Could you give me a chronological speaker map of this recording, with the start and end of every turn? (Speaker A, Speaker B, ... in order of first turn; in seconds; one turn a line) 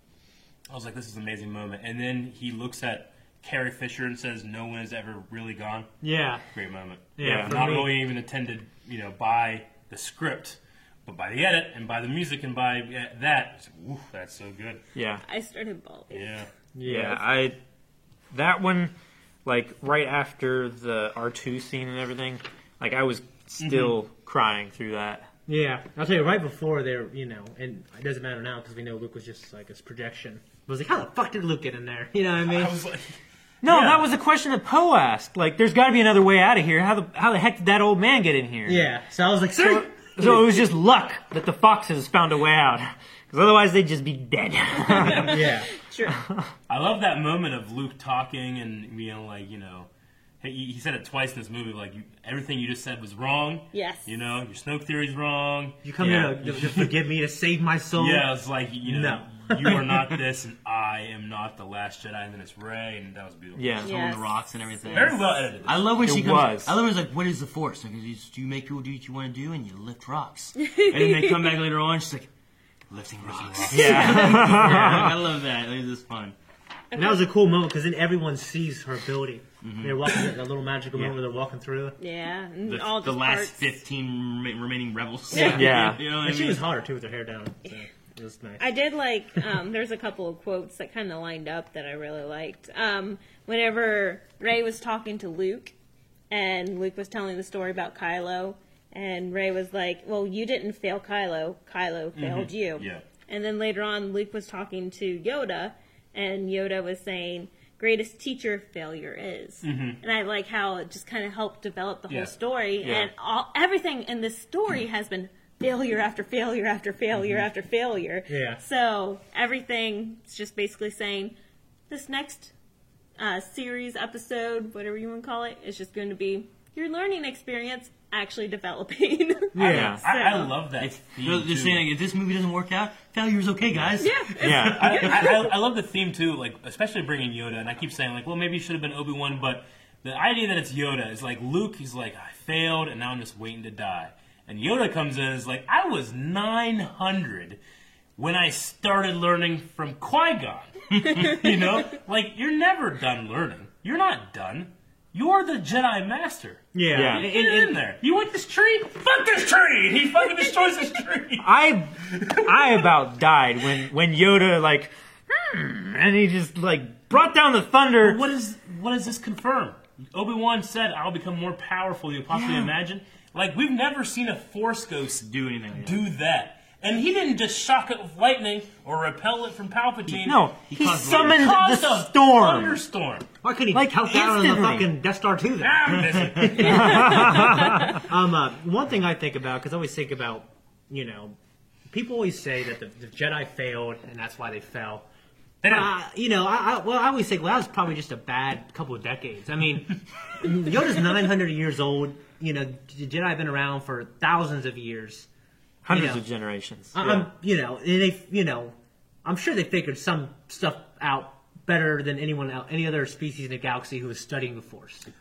Speaker A: 0.7-5.9
Speaker B: 6.0-6.4
Speaker A: 6.5-14.8
Speaker B: 7.2-7.9
Speaker C: 7.2-7.8
Speaker C: 14.9-15.2
Speaker D: 15.2-16.2
Speaker A: 16.1-16.5
Speaker B: 16.7-17.2
Speaker C: 16.8-17.6
Speaker C: 18.3-18.9
Speaker C: 19.4-25.3
Speaker A: 23.6-23.9
Speaker B: 25.5-32.8
Speaker A: 32.4-34.0
Speaker C: 33.6-38.9
Speaker B: 38.6-40.4
Speaker C: 39.5-46.5
Speaker D: 44.8-46.2
Speaker B: 45.2-45.7
Speaker A: 46.7-49.9
Speaker A: 50.4-56.9
Speaker D: 53.7-54.1
Speaker B: 55.8-58.3
Speaker A: 57.9-63.7
Speaker B: 58.8-60.0
Speaker C: 63.5-63.9
Speaker D: 63.8-65.1
Speaker E: 63.8-72.3
Speaker A: 64.9-66.0
Speaker C: 66.0-66.8
Speaker D: 70.6-71.5
Speaker E: 72.9-76.3
Speaker A: 73.2-74.5
Speaker C: 73.7-75.2
Speaker D: 76.9-77.2
Speaker B: 77.0-82.0
Speaker E: 79.6-80.0
Speaker D: 82.0-83.7
Speaker E: 82.6-86.6
Speaker B: 85.3-88.7
Speaker D: 85.3-85.6
Speaker C: 85.4-86.0
Speaker D: 88.6-95.7
Speaker D: 96.3-121.3
Speaker A: 102.1-103.0
Speaker A: 109.6-110.0
Speaker C: 112.8-113.1
Speaker B: 118.3-118.6
Speaker D: 121.9-122.5
Speaker D: 123.2-130.5
Speaker B: 129.5-130.0
Speaker A: 129.7-131.9
Speaker C: 129.7-130.0
Speaker E: 130.8-135.4
Speaker D: 134.0-135.4
Speaker C: 134.4-135.0
Speaker A: 134.7-147.6
Speaker A: 148.2-162.6
Speaker D: 151.0-151.4
Speaker B: 156.7-157.8
Speaker C: 156.9-157.3
Speaker C: 161.4-168.2
Speaker A: 168.0-183.3
Speaker E: 172.3-172.7
Speaker E: 175.2-176.0
Speaker C: 180.1-182.8
Speaker E: 180.6-181.5
Speaker B: 183.4-187.0
Speaker C: 183.7-184.9
Speaker A: 185.6-187.4
Speaker E: 186.0-186.5
Speaker C: 186.5-188.0
Speaker D: 186.8-187.9
Speaker B: 187.9-191.3
Speaker B: 191.9-195.0
Speaker A: 195.6-195.9
Speaker B: 195.6-205.3
Speaker C: 205.8-207.3
Speaker B: 205.9-206.2
Speaker B: 206.9-215.1